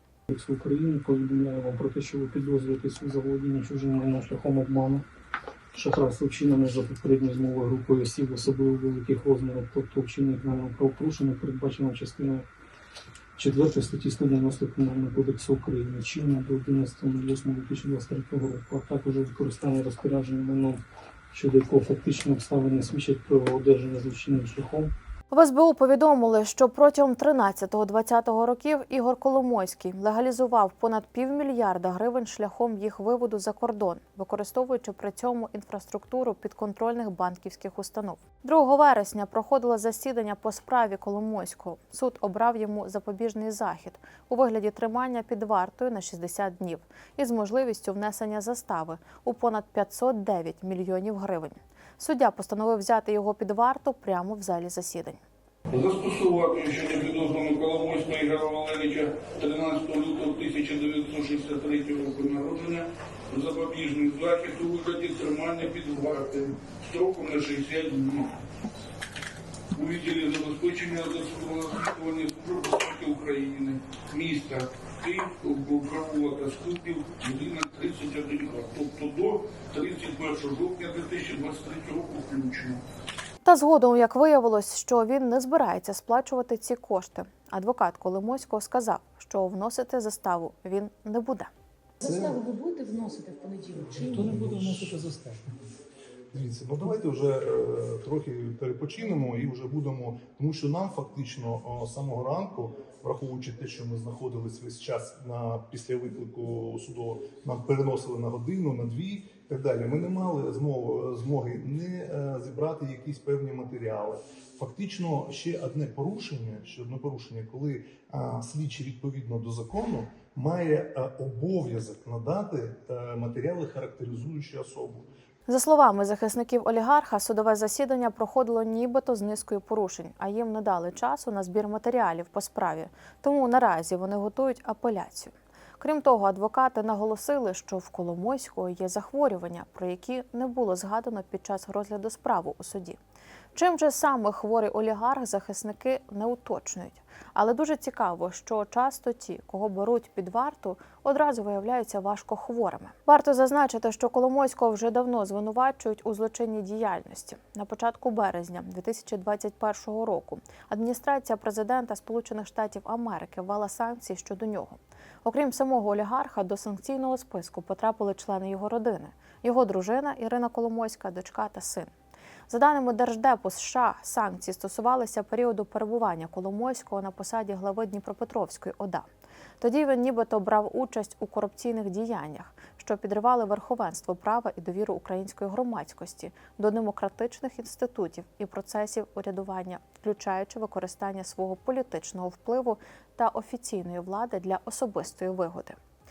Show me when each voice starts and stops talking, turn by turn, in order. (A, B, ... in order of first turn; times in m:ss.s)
0:00.3-0:05.0 A
0:05.7-0:12.5 A
0:13.4-0:20.8 A
0:21.3-0:24.9 A
0:25.3-0:55.2 B
0:55.7-1:08.4 C
1:09.7-1:22.8 C
1:23.4-1:31.5 B
1:32.0-1:34.8 D
1:32.0-1:32.4 E
1:34.2-1:35.0 E
1:34.2-1:35.5 A
1:36.3-2:05.1 E
2:05.5-2:23.0 B
2:23.5-2:51.9 B
2:52.5-2:59.1 B
2:59.6-3:15.8 B